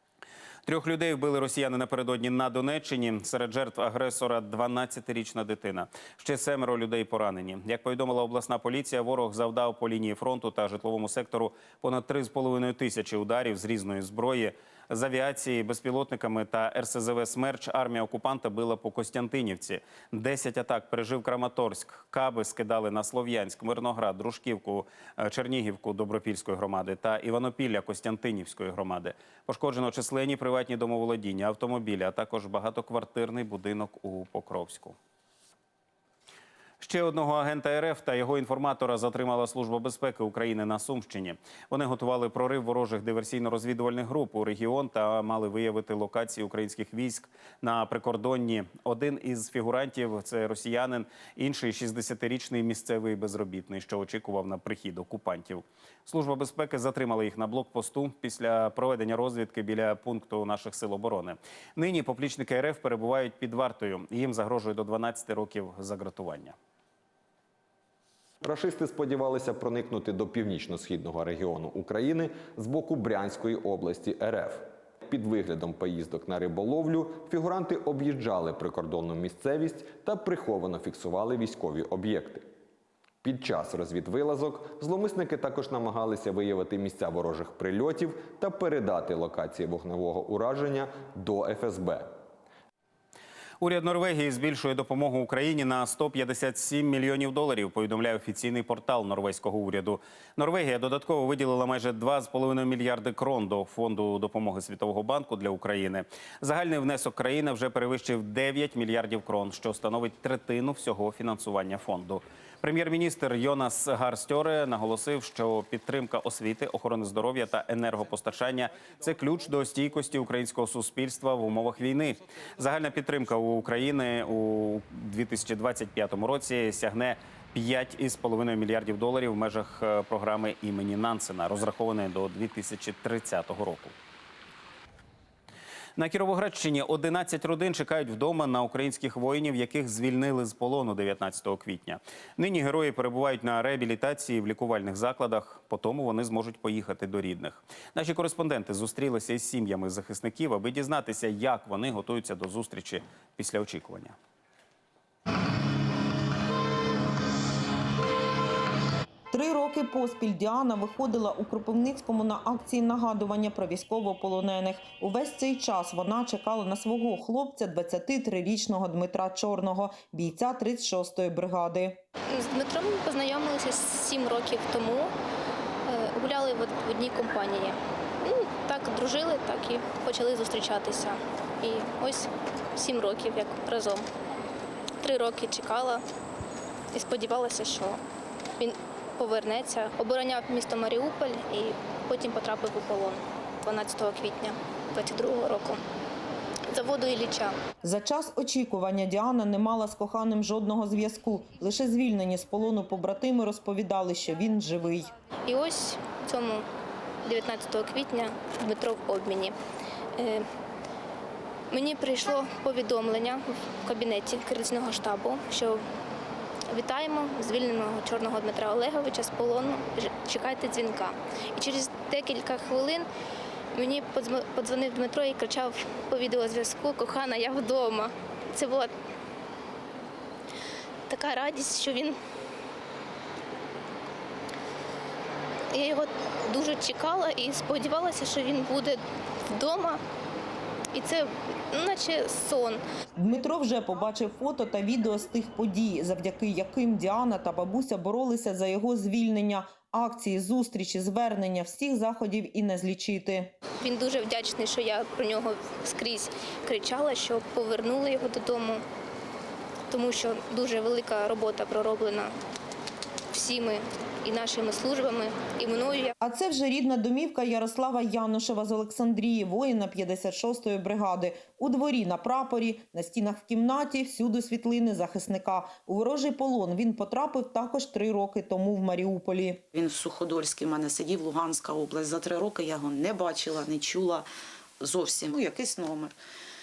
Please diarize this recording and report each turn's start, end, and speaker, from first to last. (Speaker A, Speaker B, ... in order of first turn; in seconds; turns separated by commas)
Speaker A: 0.7-35.0, Speaker A: 36.8-66.5, Speaker B: 68.4-82.5, Speaker B: 83.2-92.2, Speaker A: 93.6-133.9, Speaker A: 136.0-154.1, Speaker C: 159.3-172.0, Speaker D: 172.3-175.1, Speaker D: 175.9-184.1, Speaker D: 185.0-186.0, Speaker D: 186.9-188.0, Speaker D: 188.6-195.8, Speaker D: 196.7-197.6, Speaker C: 197.8-205.1, Speaker D: 205.4-206.7, Speaker D: 207.2-209.5, Speaker D: 210.2-210.4, Speaker D: 211.7-215.8, Speaker D: 216.7-223.1, Speaker D: 223.7-228.9, Speaker D: 231.1-232.2, Speaker D: 235.7-240.0, Speaker D: 240.9-242.8, Speaker C: 243.1-253.5, Speaker D: 253.8-258.8, Speaker D: 259.9-262.4, Speaker D: 263.3-266.1, Speaker C: 266.2-279.6, Speaker E: 279.7-286.1